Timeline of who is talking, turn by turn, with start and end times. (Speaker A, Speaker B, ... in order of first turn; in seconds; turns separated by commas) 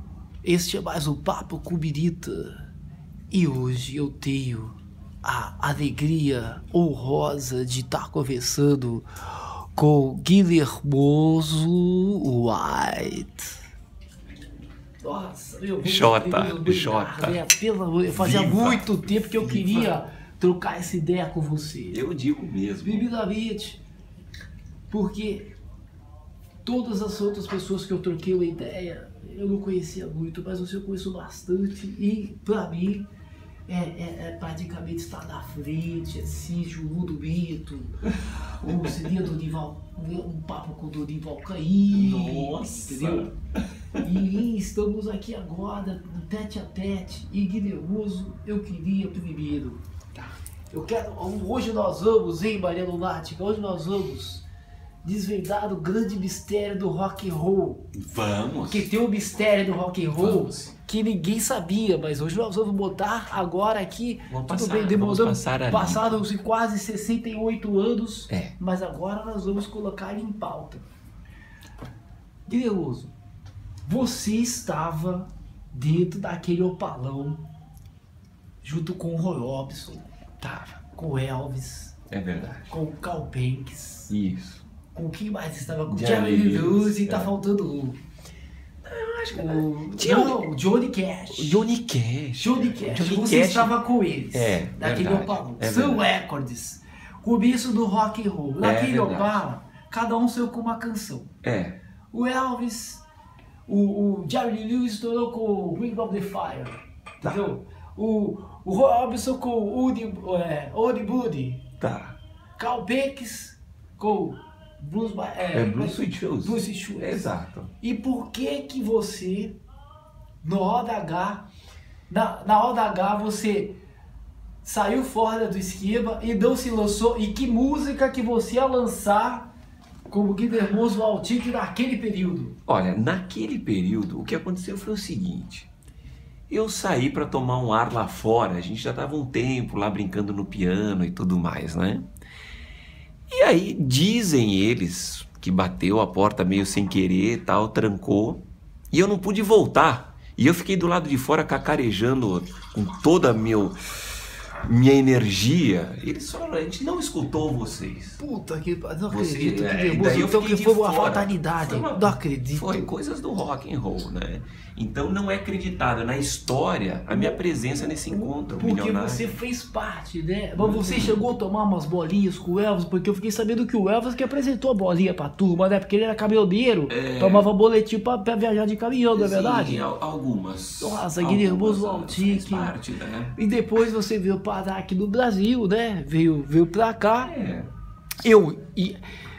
Speaker A: 0.4-2.6, Speaker A: 3.3-13.6, Speaker A: 15.0-22.0, Speaker B: 15.8-17.4, Speaker B: 18.1-20.0, Speaker B: 21.9-23.1, Speaker A: 22.8-23.8, Speaker A: 24.9-25.5, Speaker A: 26.6-33.1, Speaker A: 33.7-43.3, Speaker B: 41.9-44.2, Speaker A: 44.0-49.8, Speaker A: 50.7-54.5, Speaker A: 55.0-57.9, Speaker B: 57.9-58.9, Speaker A: 58.7-70.9, Speaker B: 60.2-60.7, Speaker B: 64.3-66.2, Speaker B: 68.3-68.5, Speaker A: 72.5-73.1, Speaker A: 73.9-77.5, Speaker A: 78.6-80.1, Speaker B: 80.4-80.8, Speaker A: 80.9-82.0, Speaker B: 82.1-82.7, Speaker A: 82.7-84.1, Speaker B: 84.1-84.7, Speaker A: 84.9-88.0, Speaker B: 85.9-87.3, Speaker B: 88.8-90.5, Speaker A: 89.3-91.7, Speaker B: 91.3-93.8, Speaker A: 92.4-101.3, Speaker B: 94.3-96.1, Speaker B: 98.6-99.5, Speaker B: 101.4-101.8, Speaker A: 102.1-103.1, Speaker A: 103.7-111.7, Speaker B: 111.8-112.2, Speaker A: 112.6-119.6, Speaker B: 115.5-117.7, Speaker A: 120.4-121.5, Speaker A: 122.1-123.8, Speaker A: 124.6-129.5, Speaker A: 130.1-132.6, Speaker B: 132.7-135.7, Speaker B: 136.5-142.1, Speaker B: 143.3-153.8, Speaker B: 154.6-158.2, Speaker A: 158.2-162.9, Speaker B: 159.1-169.3, Speaker A: 167.1-179.9, Speaker B: 170.6-171.3, Speaker B: 176.9-177.5, Speaker B: 179.1-183.4, Speaker A: 180.8-182.8, Speaker A: 183.3-187.3, Speaker B: 187.2-187.7, Speaker A: 188.2-189.0